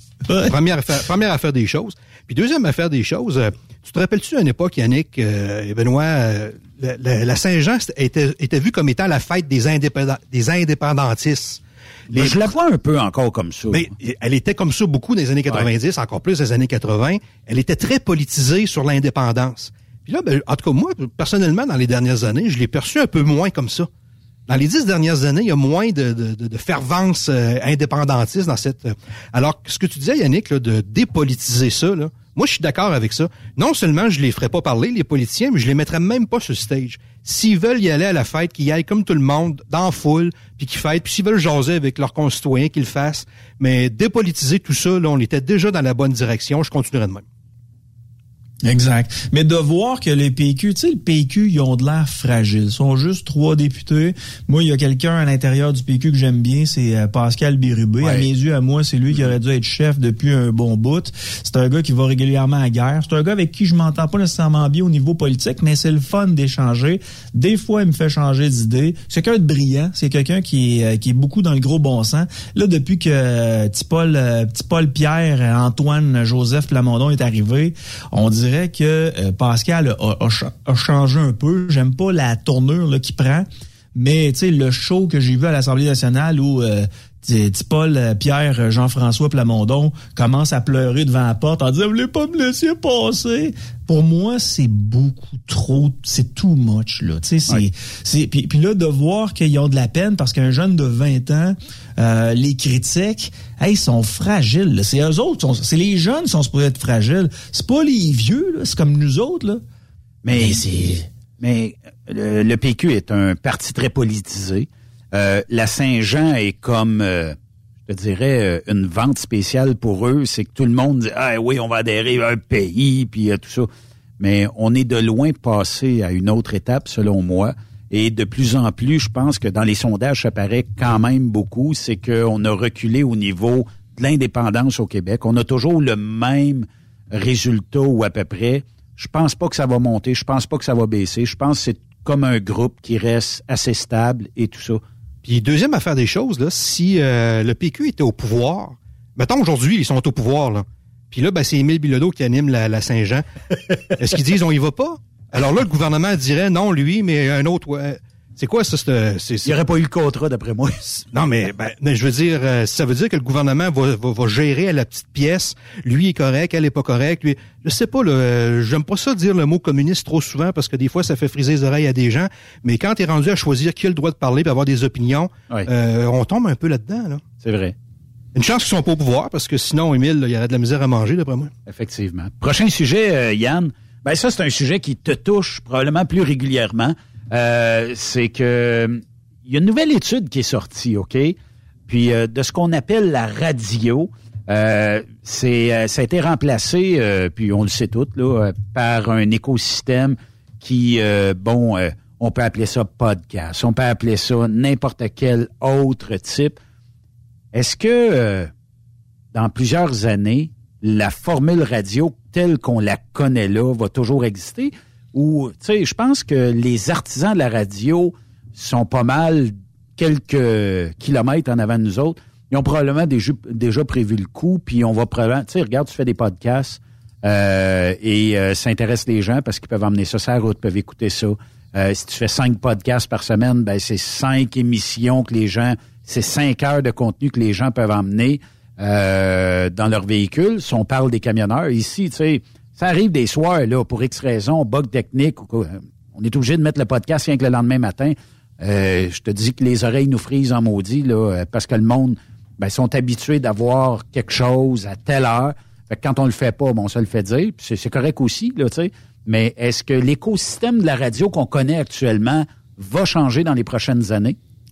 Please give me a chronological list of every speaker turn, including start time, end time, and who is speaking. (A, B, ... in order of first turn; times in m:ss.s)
0:00.3-0:00.5 A
0:00.4-0:12.5 B
0:12.1-0:13.9 C
0:13.7-0:23.9 B
0:24.5-0:47.2 B
0:48.6-1:49.6 A
1:50.2-1:57.4 C
1:50.4-1:51.0 A
1:57.9-2:24.8 C
2:25.2-2:33.2 B
2:33.9-2:39.5 B
2:39.4-2:41.0 C
2:41.1-2:57.2 B
2:57.4-2:57.8 C
2:58.3-3:01.5 B
3:01.6-3:11.4 C
3:11.9-3:26.6 C
3:27.5-3:28.5 C
3:29.3-4:24.4 C